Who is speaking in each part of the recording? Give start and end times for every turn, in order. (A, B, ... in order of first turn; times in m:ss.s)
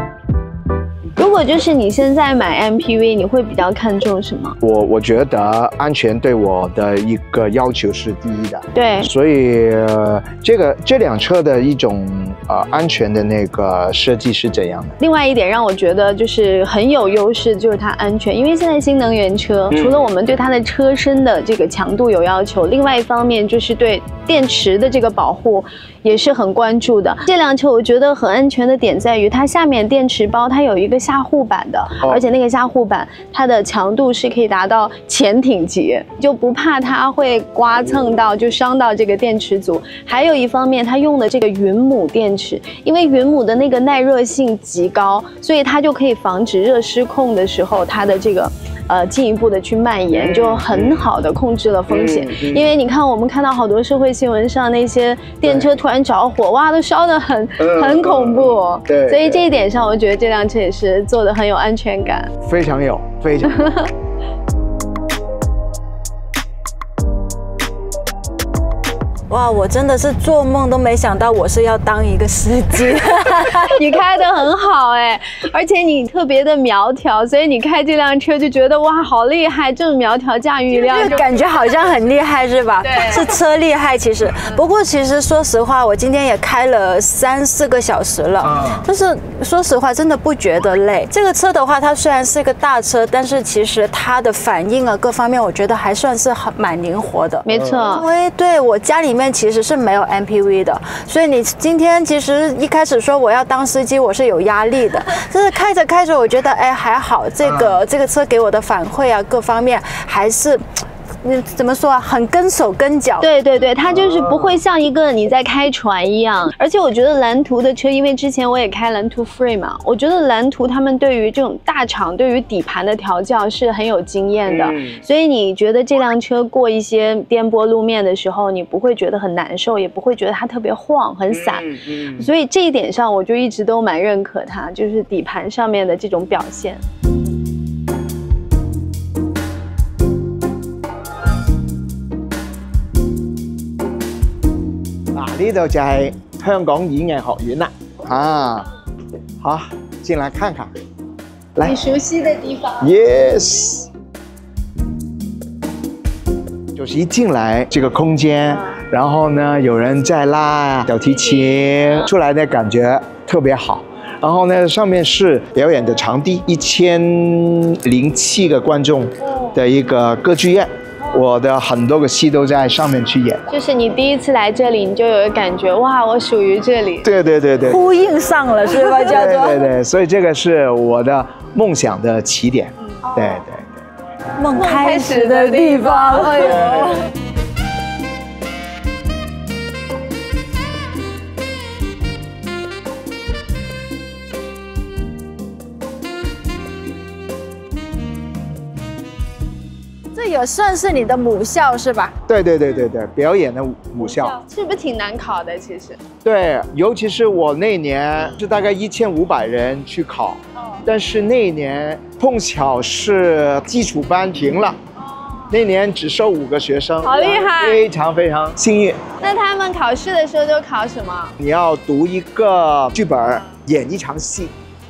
0:01.2-0:04.6 A
0:04.6-0:15.0 B
0:08.7-0:09.1 A
0:15.0-1:02.3 A
0:19.7-0:20.1 B
0:50.1-0:51.1 B
0:51.9-0:52.7 B
0:55.4-0:55.8 B
0:57.6-0:59.5 B
1:02.4-1:03.8 B
1:03.6-1:03.9 A
1:09.3-1:13.8 C
1:13.7-1:21.3 A
1:20.7-1:50.6 C
1:22.8-1:23.3 A
1:28.4-1:28.8 B
1:37.4-1:38.1 A
1:37.5-1:37.9 B
1:47.4-1:47.8 B
1:51.2-1:53.3 C
1:53.2-2:16.8 A
1:53.8-1:54.6 B
2:04.5-2:05.0 B
2:11.3-2:12.3 B
2:25.1-2:28.7 B
2:29.4-2:30.7 B
2:31.6-2:32.9 A
2:32.8-2:33.9 B
2:36.7-2:53.5 B
2:53.5-2:57.1 A
2:57.0-2:57.8 B
2:57.6-2:59.7 C
2:59.0-3:03.8 B
3:03.0-3:03.4 A
3:04.4-3:07.1 C
3:04.5-3:07.1 A
3:20.1-3:22.2 C
3:22.3-3:24.4 B
3:24.0-3:26.0 A
3:26.2-3:34.8 B
3:35.5-3:39.0 B
3:37.0-3:37.8 A
3:39.2-3:41.3 A
3:41.4-3:44.5 B